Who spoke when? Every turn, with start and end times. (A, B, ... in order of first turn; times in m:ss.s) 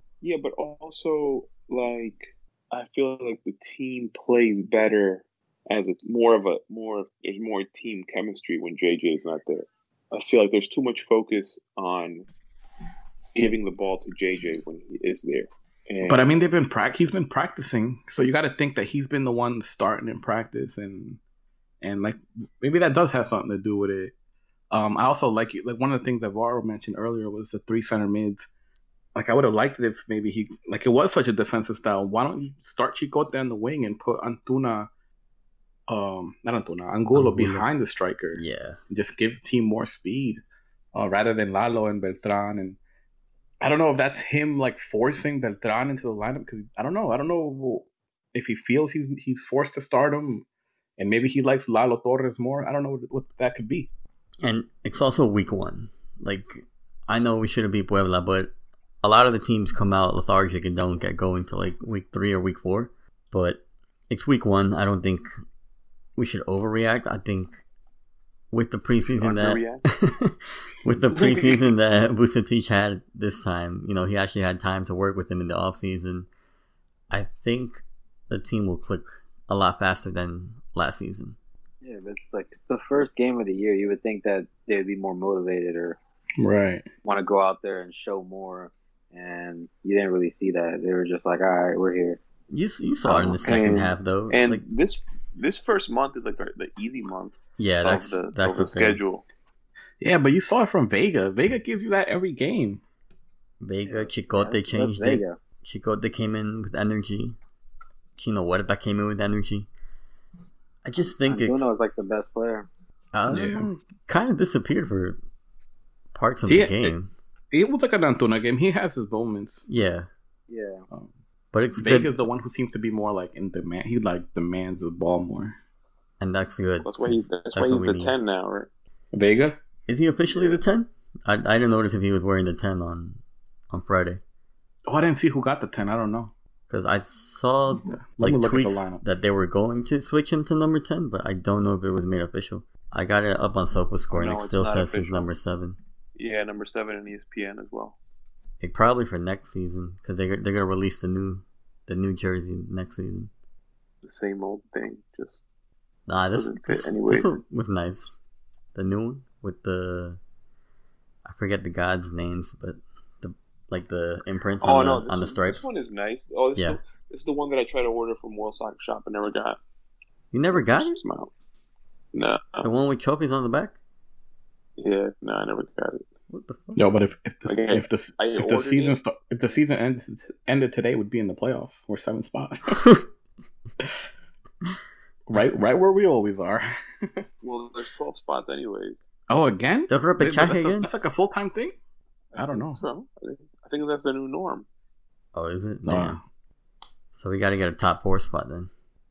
0:00.2-0:12.2 A
0:13.3-0:16.5 A
0:16.0-0:21.2 B
0:21.8-0:24.1 B
0:24.7-0:28.5 B
0:29.1-0:34.9 B
0:35.9-0:40.4 B
0:37.1-0:37.7 C
0:38.3-0:38.8 C
0:40.9-0:42.8 B
0:43.6-0:50.4 B
0:51.0-0:53.9 B
0:54.4-1:05.3 C
1:06.2-1:07.5 C
1:08.5-1:16.3 C
1:09.2-1:09.8 A
1:11.1-1:11.6 A
1:17.1-1:21.4 C
1:21.8-1:26.0 D
1:26.4-1:26.9 B
1:27.0-1:32.2 D
1:32.5-1:34.6 C
1:33.0-1:39.2 A
1:37.6-1:39.0 C
1:40.0-1:42.8 B
1:43.6-1:47.4 C
1:43.8-1:45.4 D
1:48.2-1:49.7 C
1:50.8-1:51.7 C
1:51.2-1:52.7 D
1:53.1-1:55.2 C
1:53.3-1:53.7 B
1:56.1-1:57.1 C
1:56.5-1:56.9 B
1:57.5-1:59.6 B
1:59.7-2:00.1 C
2:00.5-2:00.8 D
2:01.5-2:02.1 C
2:01.8-2:05.6 B
2:06.2-2:08.1 C
2:06.8-2:08.7 A
2:09.1-2:09.6 B
2:09.9-2:14.2 C
2:10.3-2:10.6 A
2:14.9-2:16.3 B
2:16.7-2:25.8 C
2:17.9-2:19.0 B
2:24.1-2:25.3 A
2:26.2-2:28.0 A
2:28.6-2:33.3 C
2:34.0-2:35.4 A
2:36.1-2:38.2 C
2:36.3-2:37.4 A
2:38.7-2:40.2 C
2:41.2-2:45.7 C
2:44.6-2:49.6 A
2:50.3-2:51.0 C
2:50.5-2:51.3 A
2:52.1-2:52.7 A
2:52.6-2:53.7 C
2:54.8-2:56.0 A
2:56.3-2:56.9 C
2:56.8-3:03.0 B
2:57.4-2:59.0 A
3:05.3-3:07.2 B
3:07.4-3:09.0 A
3:09.3-3:11.7 B
3:09.9-3:10.9 C
3:12.3-3:12.8 B
3:12.3-3:14.6 A
3:15.3-3:16.2 C
3:15.8-3:16.2 B
3:17.2-3:18.7 C